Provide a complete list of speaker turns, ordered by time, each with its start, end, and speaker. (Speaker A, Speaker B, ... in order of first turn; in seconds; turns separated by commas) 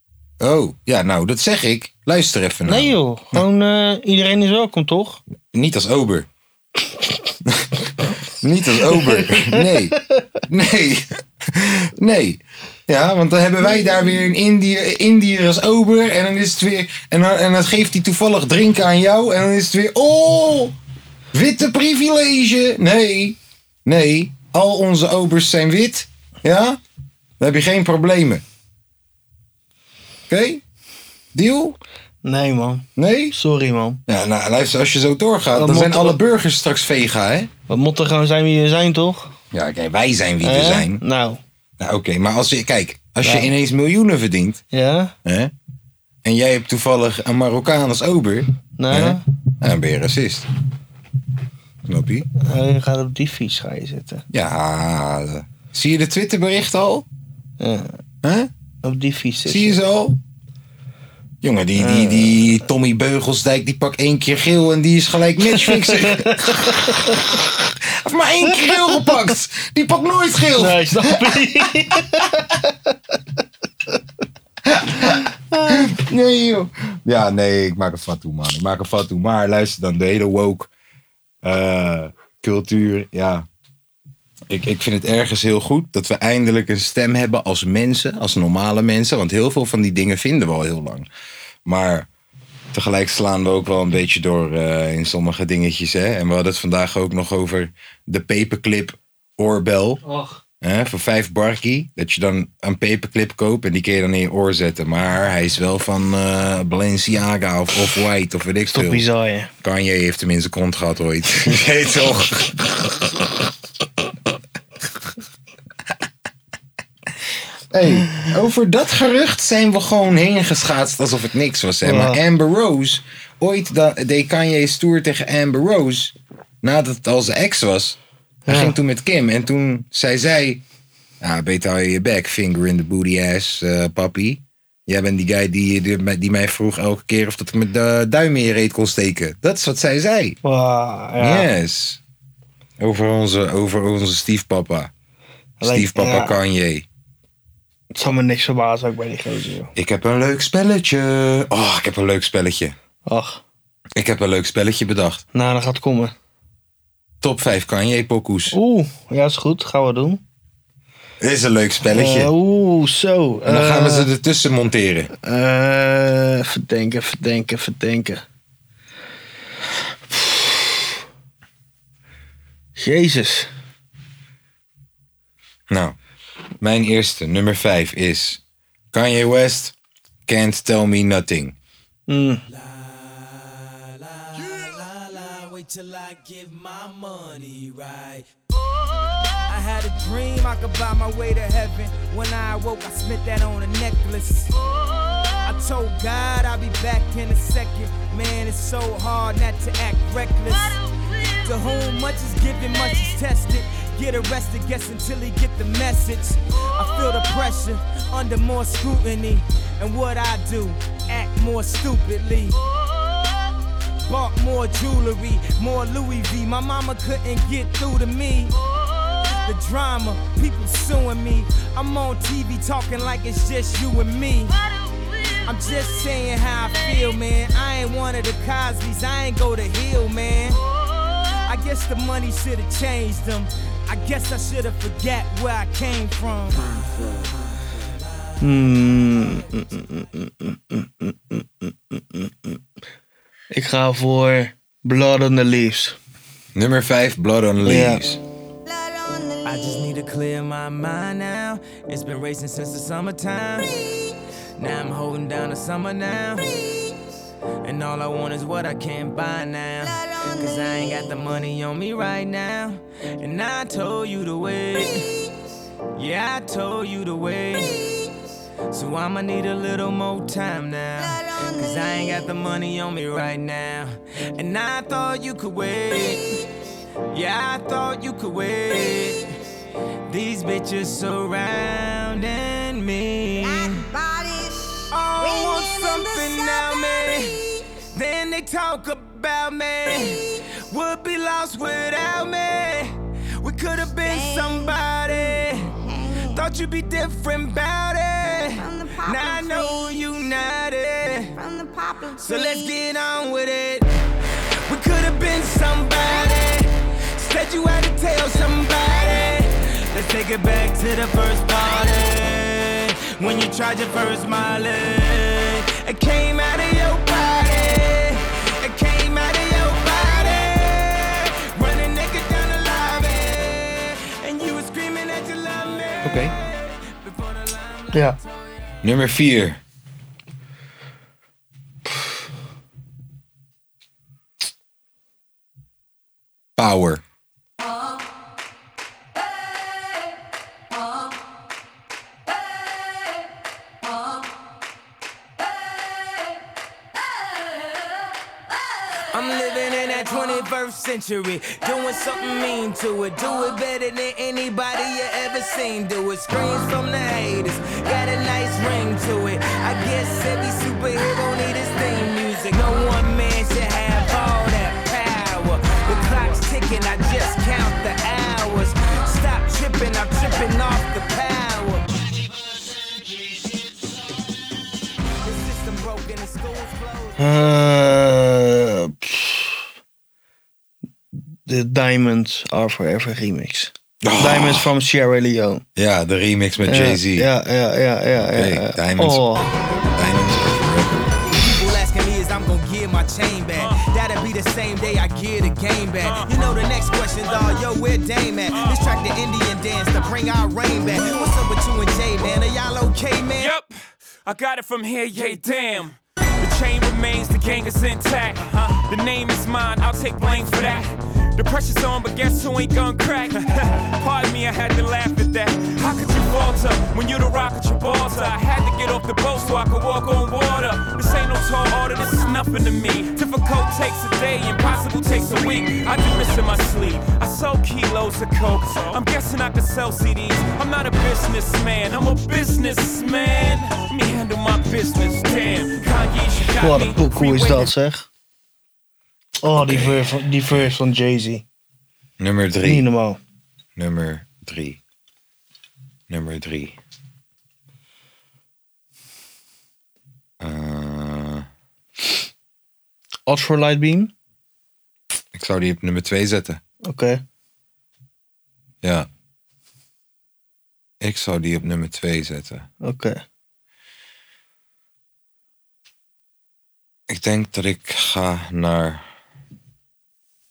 Speaker A: 0.4-3.4, Speaker B: 2.7-5.2, Speaker A: 5.5-6.3, Speaker A: 7.5-7.9, Speaker A: 8.4-20.8, Speaker B: 8.8-10.2, Speaker A: 21.3-26.8, Speaker A: 27.4-28.4, Speaker A: 30.3-30.6, Speaker A: 31.4-31.8, Speaker B: 32.2-34.0, Speaker A: 33.0-33.4, Speaker A: 34.1-37.5, Speaker B: 35.5-36.2, Speaker B: 37.7-39.3, Speaker A: 39.5-41.0, Speaker B: 40.4-41.4, Speaker A: 41.8-44.6, Speaker B: 43.2-43.5, Speaker B: 44.7-45.1, Speaker A: 45.2-45.5, Speaker A: 46.2-50.5, Speaker B: 48.8-49.2, Speaker A: 51.9-52.3, Speaker B: 52.4-54.2, Speaker A: 54.3-57.1, Speaker B: 57.6-58.0, Speaker A: 58.2-58.5, Speaker B: 58.8-59.8, Speaker A: 59.5-60.2, Speaker A: 61.4-72.2, Speaker B: 61.8-62.5, Speaker B: 65.6-67.3, Speaker B: 68.5-69.1, Speaker B: 70.6-72.9, Speaker A: 74.6-80.7, Speaker B: 75.5-75.9, Speaker A: 81.4-83.5, Speaker A: 84.5-91.1, Speaker A: 91.7-92.1, Speaker A: 92.7-100.0, Speaker B: 100.0-100.4, Speaker A: 100.6-109.1, Speaker B: 108.7-109.5, Speaker A: 109.6-112.9, Speaker A: 117.7-128.0, Speaker B: 121.8-122.2, Speaker B: 128.5-128.8, Speaker A: 128.5-130.6, Speaker A: 131.2-140.4, Speaker B: 140.4-141.5, Speaker A: 141.2-142.0, Speaker A: 142.8-144.9, Speaker B: 145.6-146.4, Speaker A: 145.6-146.9, Speaker B: 147.9-149.7, Speaker A: 149.8-152.8, Speaker B: 153.1-153.4, Speaker A: 154.0-155.2, Speaker B: 155.3-156.1, Speaker A: 157.2-158.6, Speaker B: 158.5-160.2, Speaker A: 161.2-162.3, Speaker B: 161.9-164.1, Speaker A: 163.4-165.1, Speaker B: 165.2-168.2, Speaker B: 170.1-170.9, Speaker B: 172.8-173.5, Speaker A: 175.7-176.0, Speaker A: 176.6-178.4, Speaker A: 178.9-179.7, Speaker A: 180.3-181.6, Speaker B: 182.1-182.4, Speaker C: 182.5-188.3, Speaker C: 189.5-194.5, Speaker C: 195.4-200.8, Speaker C: 201.4-212.6, Speaker C: 214.1-218.5, Speaker C: 219.4-224.6, Speaker C: 225.4-230.6, Speaker C: 231.4-237.3, Speaker C: 238.4-239.5, Speaker B: 238.4-242.6, Speaker B: 243.5-246.0, Speaker A: 246.6-248.2, Speaker B: 247.6-248.0, Speaker D: 248.7-249.8, Speaker C: 249.4-253.8, Speaker C: 254.6-256.5, Speaker C: 257.6-265.1, Speaker D: 259.9-260.9, Speaker C: 265.9-267.8, Speaker C: 268.7-276.3, Speaker D: 271.0-272.2, Speaker C: 277.1-279.3, Speaker C: 280.1-283.9, Speaker D: 283.4-287.4, Speaker C: 284.9-287.4, Speaker C: 287.9-295.7, Speaker D: 294.0-296.4, Speaker C: 296.3-301.4, Speaker D: 298.6-300.1, Speaker D: 301.4-302.8, Speaker C: 302.2-303.9, Speaker C: 304.7-328.9, Speaker A: 326.0-326.4, Speaker A: 328.8-329.6, Speaker A: 336.6-337.0, Speaker C: 349.1-371.9, Speaker C: 375.2-377.2, Speaker B: 377.2-379.6, Speaker B: 381.5-385.6, Speaker A: 384.0-384.7, Speaker A: 385.8-387.3, Speaker B: 386.7-389.5, Speaker A: 388.2-391.0, Speaker C: 391.2-403.5, Speaker E: 396.0-396.3, Speaker E: 398.5-398.8, Speaker E: 403.4-437.7, Speaker B: 436.6-438.1, Speaker B: 439.4-441.4, Speaker A: 439.6-440.7, Speaker A: 442.2-442.9, Speaker B: 442.6-443.2, Speaker A: 443.8-444.8, Speaker A: 446.1-446.8, Speaker A: 450.4-451.5, Speaker B: 453.3-454.1, Speaker A: 455.3-456.6, Speaker B: 456.9-457.2, Speaker A: 458.8-459.1, Speaker A: 461.0-462.7, Speaker B: 462.8-463.2, Speaker A: 467.1-469.0